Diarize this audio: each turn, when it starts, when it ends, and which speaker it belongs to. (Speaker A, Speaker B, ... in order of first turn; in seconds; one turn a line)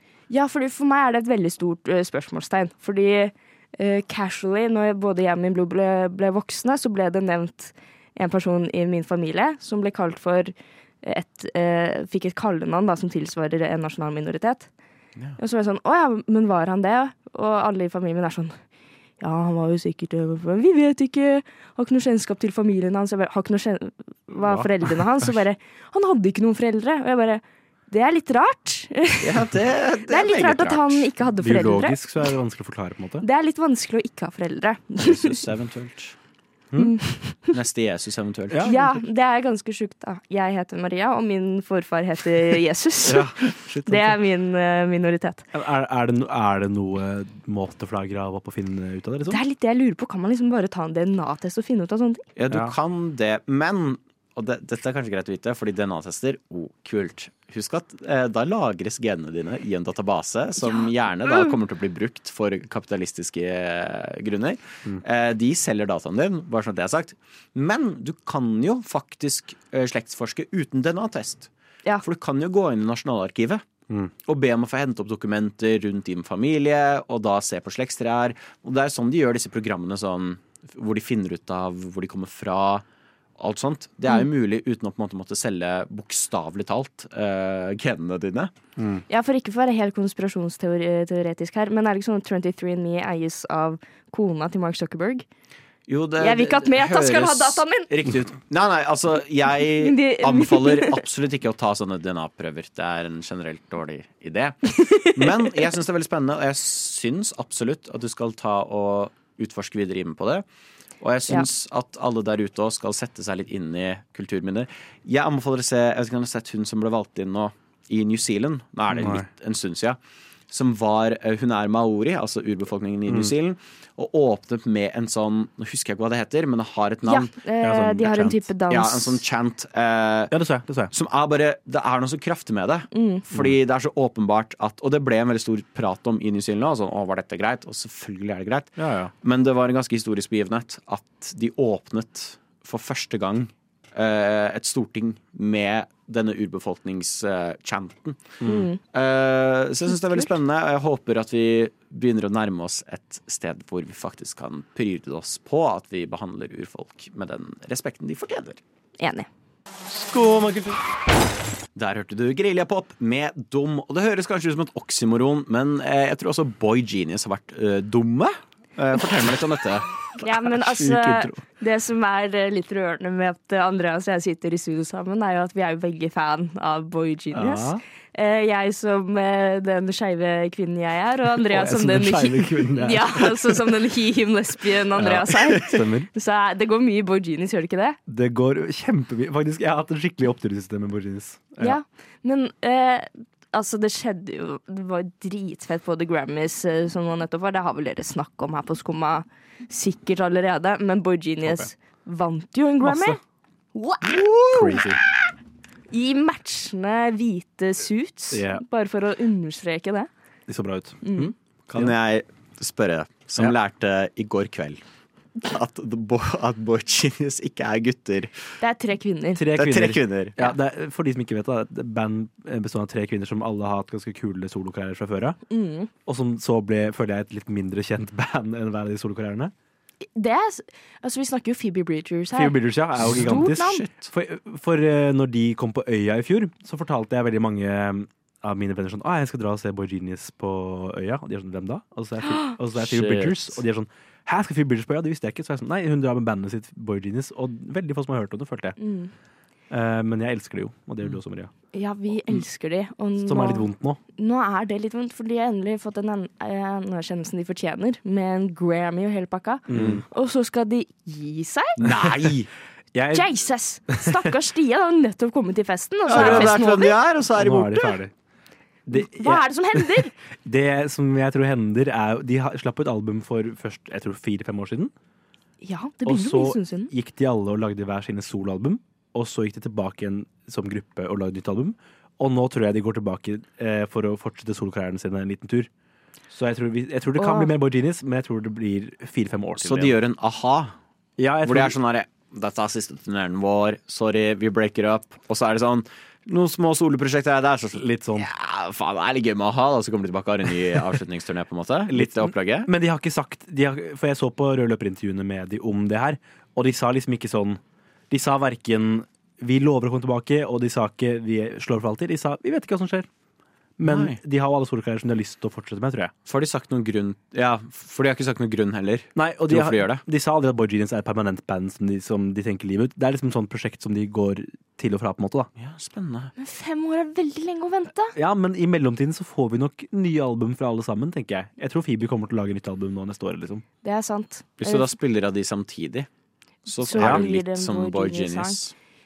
Speaker A: 0.3-14.7
Speaker A: 15.4-18.6
Speaker A: 19.2-29.4
Speaker B: 24.4-24.7
Speaker C: 29.2-31.1
Speaker A: 30.1-32.0
Speaker B: 31.4-33.2
Speaker A: 33.2-35.4
Speaker C: 35.0-36.2
Speaker A: 36.8-37.4
Speaker C: 37.5-39.0
Speaker B: 38.5-38.8
Speaker A: 38.7-43.4
Speaker B: 43.0-44.2
Speaker A: 43.9-45.5
Speaker B: 45.5-49.4
Speaker A: 49.3-52.2
Speaker C: 52.4-71.5
Speaker B: 52.5-52.8
Speaker A: 60.6-61.5
Speaker C: 72.0-73.6
Speaker C: 74.3-82.8
Speaker C: 83.4-88.5
Speaker B: 88.8-89.0
Speaker A: 89.1-95.3
Speaker C: 95.9-110.5
Speaker A: 96.2-97.9
Speaker A: 99.8-101.0
Speaker A: 104.8-105.5
Speaker C: 111.0-120.0
Speaker B: 118.9-119.3
Speaker C: 120.5-127.3
Speaker B: 123.1-123.3
Speaker A: 127.1-129.2
Speaker B: 127.6-128.4
Speaker C: 128.7-130.3
Speaker B: 130.3-130.9
Speaker C: 130.9-158.6
Speaker A: 132.9-133.2
Speaker B: 138.8-139.1
Speaker B: 148.4-148.7
Speaker A: 148.4-148.8
Speaker A: 149.9-150.3
Speaker A: 159.0-159.3
Speaker C: 159.9-160.8
Speaker C: 161.8-170.0
Speaker A: 170.2-188.0
Speaker B: 170.5-171.4
Speaker B: 177.3-177.8
Speaker B: 181.5-183.7
Speaker B: 185.0-186.1
Speaker B: 188.1-191.8
Speaker A: 191.6-203.2
Speaker B: 201.4-201.7
Speaker B: 202.8-203.2
Speaker A: 203.8-204.2
Speaker C: 204.1-204.9
Speaker B: 204.5-205.0
Speaker A: 205.9-210.1
Speaker B: 208.3-208.6
Speaker B: 210.5-211.9
Speaker A: 211.0-211.3
Speaker C: 211.7-214.8
Speaker C: 215.4-218.4
Speaker A: 218.6-219.4
Speaker B: 219.3-225.4
Speaker C: 219.6-220.6
Speaker A: 225.5-225.9
Speaker B: 226.1-229.5
Speaker A: 230.2-233.8
Speaker B: 232.3-248.8
Speaker C: 233.0-234.1
Speaker C: 242.8-243.6
Speaker A: 248.8-249.1
Speaker B: 249.7-251.5
Speaker A: 251.7-261.8
Speaker B: 253.2-254.0
Speaker B: 259.7-260.0
Speaker C: 259.7-260.0
Speaker C: 261.8-262.5
Speaker B: 262.9-263.4
Speaker A: 263.1-266.9
Speaker B: 263.9-264.2
Speaker C: 266.1-268.0
Speaker B: 266.1-266.6
Speaker B: 267.4-268.1
Speaker B: 268.9-274.9
Speaker A: 268.9-270.1
Speaker A: 275.6-276.9
Speaker B: 276.1-285.7
Speaker B: 286.3-290.0
Speaker A: 287.2-287.5
Speaker C: 289.6-290.7
Speaker B: 291.2-291.8
Speaker C: 291.4-302.7
Speaker B: 297.8-298.3
Speaker B: 301.9-313.1
Speaker B: 313.8-316.1
Speaker C: 313.9-314.2
Speaker C: 316.3-320.0
Speaker B: 319.1-325.5
Speaker C: 325.6-326.3
Speaker A: 326.4-328.1
Speaker B: 328.1-333.6
Speaker A: 333.8-334.9
Speaker C: 334.6-336.1
Speaker C: 336.7-338.7
Speaker A: 336.8-338.6
Speaker B: 337.0-337.2